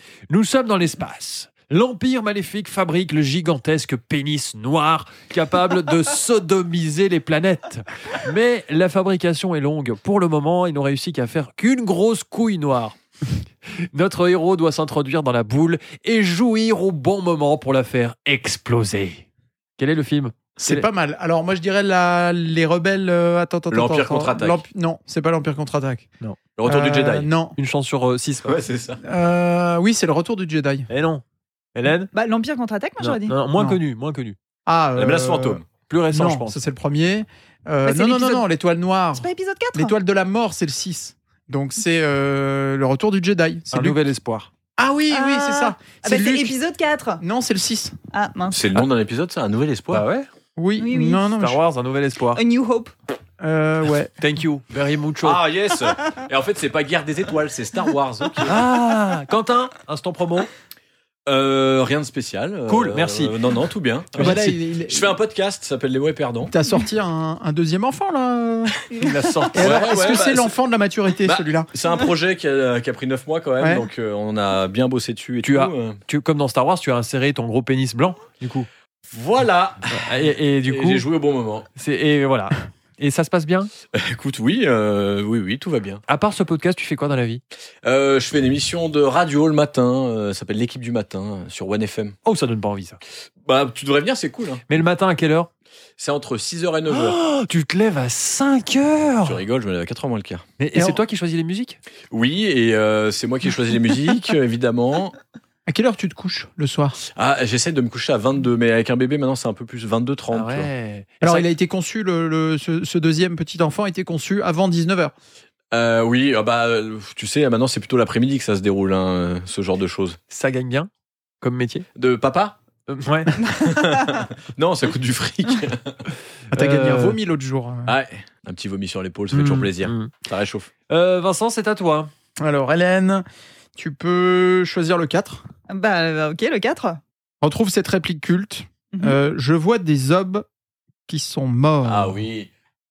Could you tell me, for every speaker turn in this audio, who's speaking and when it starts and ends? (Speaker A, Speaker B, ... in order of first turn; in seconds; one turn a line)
Speaker A: 0.3-13.0
Speaker A: 13.8-19.2
Speaker A: 19.8-20.9
Speaker B: 20.6-26.1
Speaker C: 23.7-24.6
Speaker C: 26.6-27.3
Speaker B: 26.6-27.6
Speaker A: 27.6-28.6
Speaker C: 28.4-29.0
Speaker B: 29.0-30.9
Speaker A: 30.9-31.2
Speaker A: 31.7-32.1
Speaker D: 32.1-33.4
Speaker A: 33.0-34.4
Speaker B: 33.5-33.8
Speaker B: 34.6-44.0
Speaker C: 35.0-35.6
Speaker A: 35.9-36.6
Speaker D: 37.8-38.4
Speaker D: 39.2-39.9
Speaker A: 43.7-44.5
Speaker B: 44.8-46.6
Speaker D: 45.1-47.2
Speaker B: 47.2-48.0
Speaker D: 48.1-48.6
Speaker C: 48.5-50.0
Speaker A: 49.9-50.3
Speaker B: 50.5-51.6
Speaker D: 50.8-51.2
Speaker A: 51.4-52.4
Speaker D: 52.3-52.9
Speaker B: 53.4-54.1
Speaker A: 54.2-55.4
Speaker C: 55.2-58.6
Speaker A: 58.4-60.5
Speaker C: 61.3-66.5
Speaker A: 62.7-63.3
Speaker A: 64.1-64.6
Speaker B: 64.1-65.1
Speaker B: 66.4-68.8
Speaker A: 69.0-70.0
Speaker B: 69.5-71.7
Speaker C: 69.6-70.5
Speaker C: 71.2-76.0
Speaker B: 73.6-73.9
Speaker A: 75.4-78.7
Speaker C: 79.1-80.0
Speaker A: 79.9-81.0
Speaker C: 80.7-81.7
Speaker A: 81.7-83.7
Speaker C: 83.9-86.0
Speaker A: 86.1-87.4
Speaker C: 87.8-92.2
Speaker A: 92.2-93.0
Speaker C: 93.4-94.7
Speaker A: 94.7-95.5
Speaker C: 96.0-97.2
Speaker A: 96.9-99.4
Speaker C: 99.2-100.4
Speaker A: 100.6-101.8
Speaker B: 100.7-101.0
Speaker C: 102.1-105.2
Speaker B: 105.7-107.0
Speaker C: 107.1-110.7
Speaker A: 110.3-111.5
Speaker B: 111.2-115.1
Speaker C: 115.7-120.2
Speaker A: 120.3-120.9
Speaker A: 121.4-121.8
Speaker C: 122.0-122.5
Speaker A: 122.9-123.4
Speaker C: 123.4-126.0
Speaker A: 126.5-127.2
Speaker B: 126.5-127.9
Speaker C: 127.9-130.7
Speaker A: 129.3-130.1
Speaker A: 130.9-132.1
Speaker B: 132.4-135.4
Speaker D: 135.7-137.0
Speaker B: 137.4-140.4
Speaker B: 141.1-142.2
Speaker C: 141.8-142.5